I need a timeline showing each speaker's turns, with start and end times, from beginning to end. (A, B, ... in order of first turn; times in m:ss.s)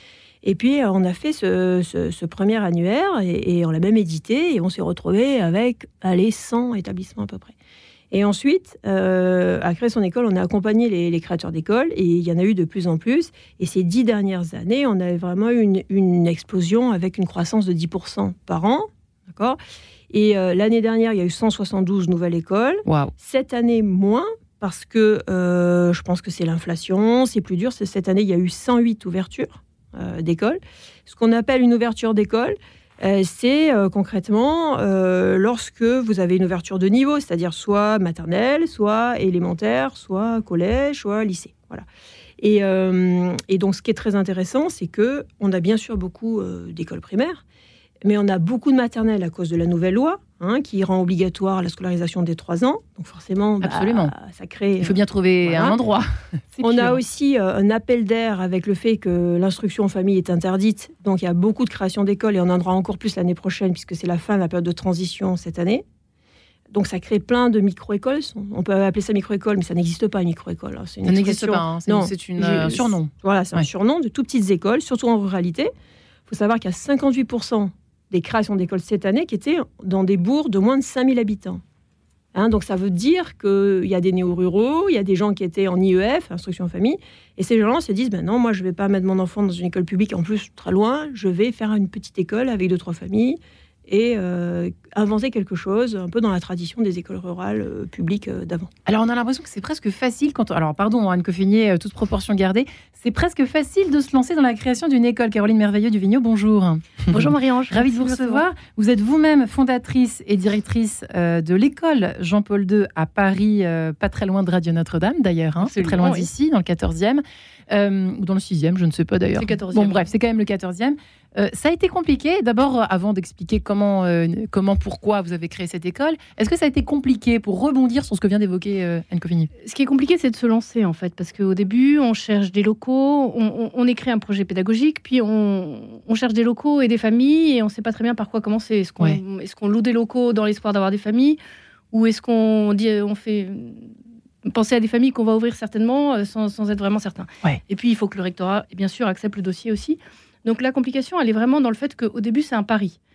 0:00.4-0:07.5 A
0:08.1-0:19.6 A
0:20.1-0:41.8 A
0:22.8-0:23.1 B
0:42.4-0:47.4 A
0:48.0-0:55.8 A
0:53.6-0:54.1 B
0:54.8-0:57.0 B
0:56.6-1:05.8 A
1:06.7-1:15.7 A
1:11.0-1:13.7 B
1:16.3-1:21.6 A
1:22.3-1:38.7 A
1:38.8-2:09.5 B
1:47.1-1:48.4 C
1:55.6-1:56.3 C
1:59.4-2:00.0 C
2:09.6-2:21.4 C
2:21.9-2:23.9 C
2:24.4-2:33.0 C